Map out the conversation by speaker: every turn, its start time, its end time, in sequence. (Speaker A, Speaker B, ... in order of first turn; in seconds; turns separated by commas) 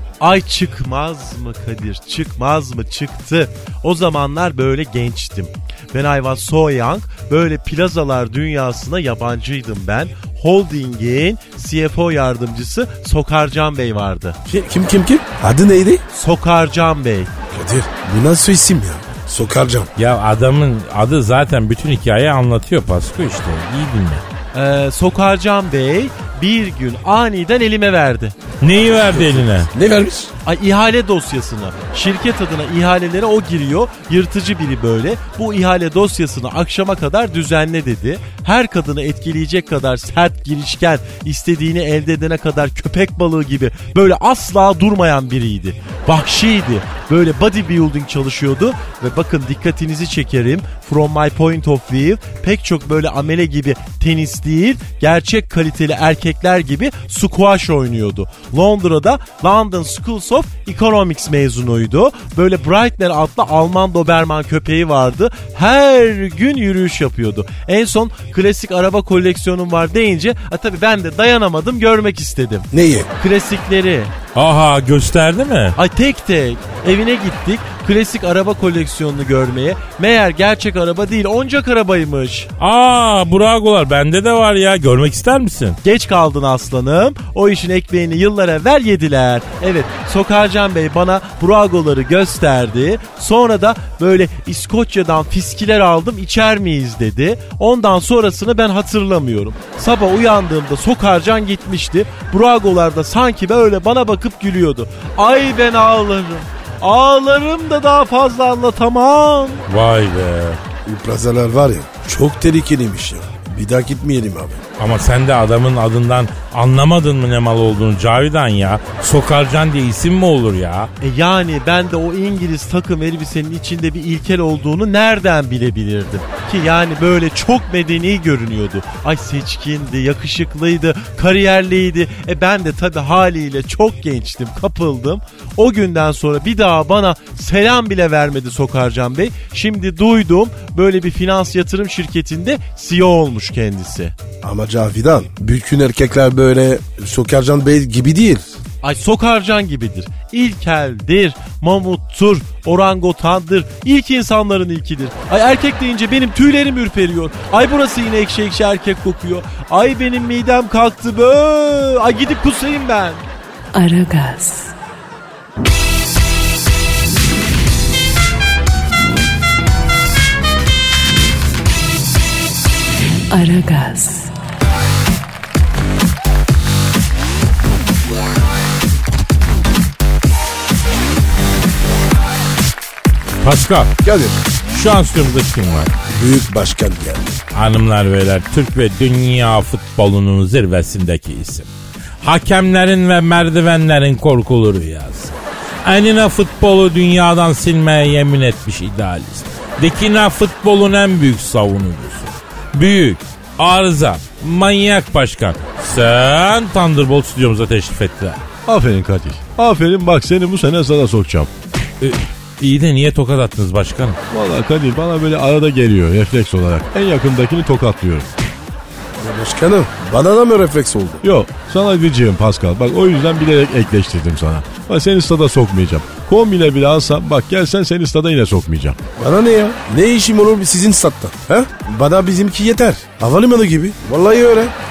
Speaker A: 0.2-14.4, Speaker B: 14.4-16.0, Speaker A: 16.1-17.3, Speaker B: 17.5-19.9, Speaker C: 20.0-24.2, Speaker A: 24.5-28.4, Speaker C: 28.6-29.7, Speaker B: 29.1-30.3, Speaker A: 30.4-74.1, Speaker B: 72.7-73.1, Speaker C: 74.3-75.8, Speaker A: 75.8-82.5, Speaker C: 82.6-85.8, Speaker A: 85.8-109.6, Speaker C: 109.7-110.6, Speaker B: 110.8-114.6, Speaker C: 114.8-120.9, Speaker A: 121.0-144.1, Speaker B: 144.4-148.5, Speaker A: 148.8-163.2, Speaker D: 163.7-164.7, Speaker D: 173.3-174.3, Speaker C: 183.4-183.9, Speaker B: 184.0-184.4, Speaker C: 184.7-185.9, Speaker B: 186.1-187.4, Speaker C: 187.5-191.7, Speaker C: 192.2-195.3, Speaker C: 195.8-208.4, Speaker E: 208.7-211.5, Speaker C: 212.0-214.2, Speaker E: 214.3-218.3, Speaker B: 219.2-221.2, Speaker E: 221.2-229.0, Speaker B: 229.2-234.7